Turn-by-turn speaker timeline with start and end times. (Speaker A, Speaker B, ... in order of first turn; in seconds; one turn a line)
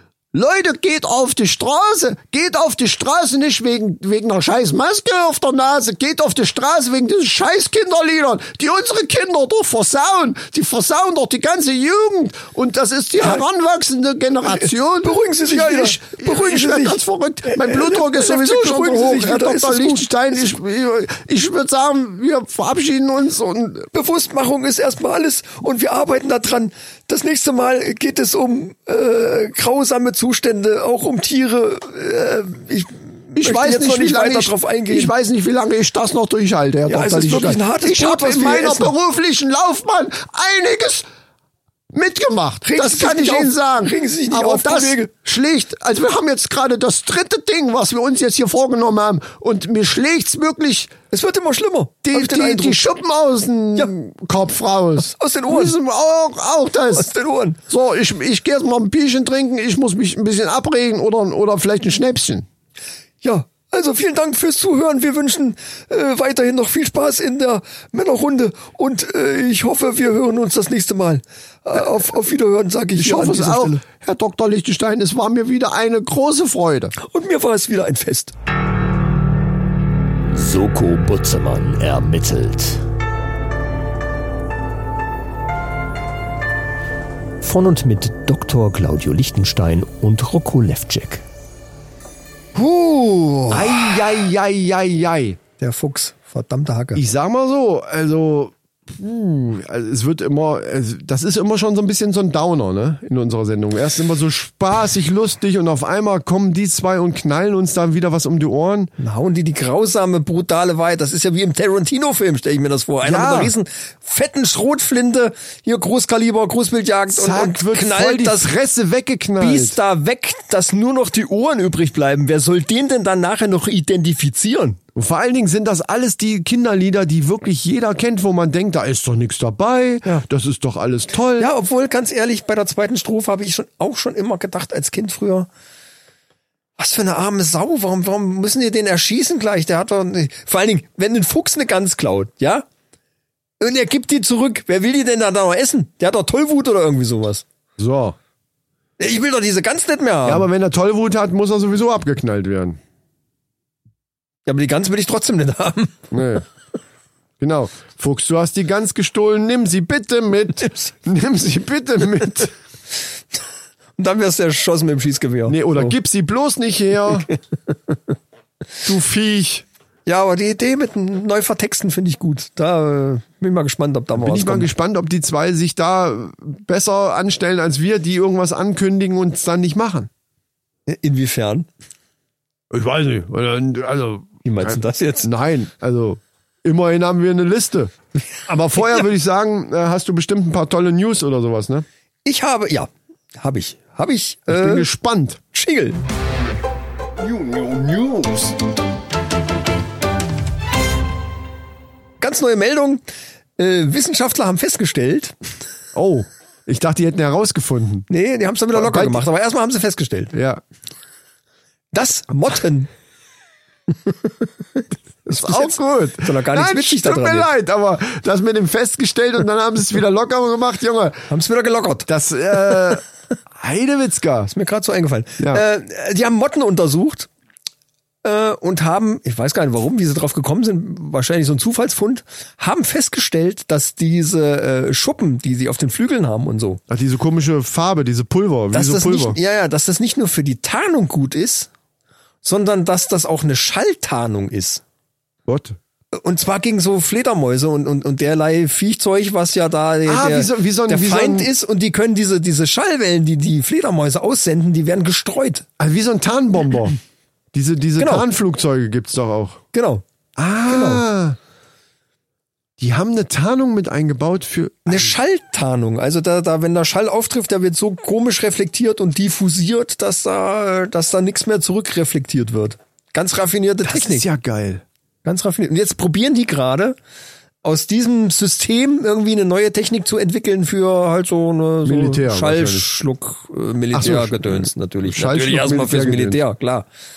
Speaker A: 0.3-23.9
Speaker B: 14.4-20.4
Speaker B: 23.9-35.1
Speaker A: 33.3-41.0
Speaker B: 36.9-38.9
Speaker A: 41.9-50.9
Speaker B: 42.6-45.1
Speaker B: 51.1-52.8
Speaker A: 52.0-57.1
Speaker B: 55.0-55.8
Speaker B: 56.9-57.6
Speaker A: 57.7-62.5
Speaker B: 63.2-73.8
Speaker A: 73.0-76.9
Speaker B: 77.0-78.3
Speaker C: 80.3-82.8
Speaker C: 87.4-91.2
Speaker B: 92.5-94.0
Speaker A: 93.5-95.4
Speaker B: 95.6-97.0
Speaker A: 96.9-108.9
Speaker B: 109.0-118.5
Speaker A: 113.0-113.5
Speaker A: 117.1-119.8
Speaker B: 119.4-124.8
Speaker A: 124.9-131.5
Speaker B: 131.4-135.5
Speaker B: 136.8-142.7
Speaker B: 143.6-147.4
Speaker A: 147.8-148.2
Speaker B: 149.0-150.5
Speaker A: 150.2-152.8
Speaker B: 154.4-156.1
Speaker A: 156.1-156.4
Speaker A: 157.4-162.5
Speaker B: 164.0-165.9
Speaker A: 165.5-167.3
Speaker A: 168.8-169.7
Speaker B: 170.1-174.7
Speaker A: 174.1-180.1
Speaker B: 180.9-181.7
Speaker A: 182.7-187.9
Speaker B: 184.4-185.3
Speaker A: 188.4-191.8
Speaker B: 192.2-194.9
Speaker A: 194.5-195.4
Speaker B: 195.5-196.0
Speaker A: 197.2-198.5
Speaker B: 202.2-203.0
Speaker B: 203.6-205.3
Speaker A: 205.9-208.1
Speaker B: 208.1-210.3
Speaker A: 208.7-209.2
Speaker A: 210.3-210.6
Speaker B: 211.9-212.9
Speaker B: 215.2-217.5
Speaker A: 215.3-221.3
Speaker B: 221.3-222.1
Speaker A: 222.1-223.0
Speaker B: 222.6-222.9
Speaker A: 223.6-224.5
Speaker B: 224.5-227.3
Speaker A: 225.4-225.6
Speaker B: 228.2-236.8
Speaker A: 236.9-239.4
Speaker B: 238.7-241.7
Speaker B: 242.4-244.8
Speaker A: 245.5-245.8
Speaker B: 246.1-255.6
Speaker A: 250.1-251.5
Speaker A: 255.8-257.0
Speaker A: 257.5-259.6
Speaker B: 258.0-258.2
Speaker B: 259.7-260.0
Speaker A: 260.4-261.4
Speaker B: 260.7-261.0
Speaker A: 262.8-265.1
Speaker B: 264.9-274.2
Speaker A: 273.8-274.8
Speaker B: 275.2-276.9
Speaker B: 277.6-286.9
Speaker A: 281.8-282.9
Speaker A: 283.9-286.4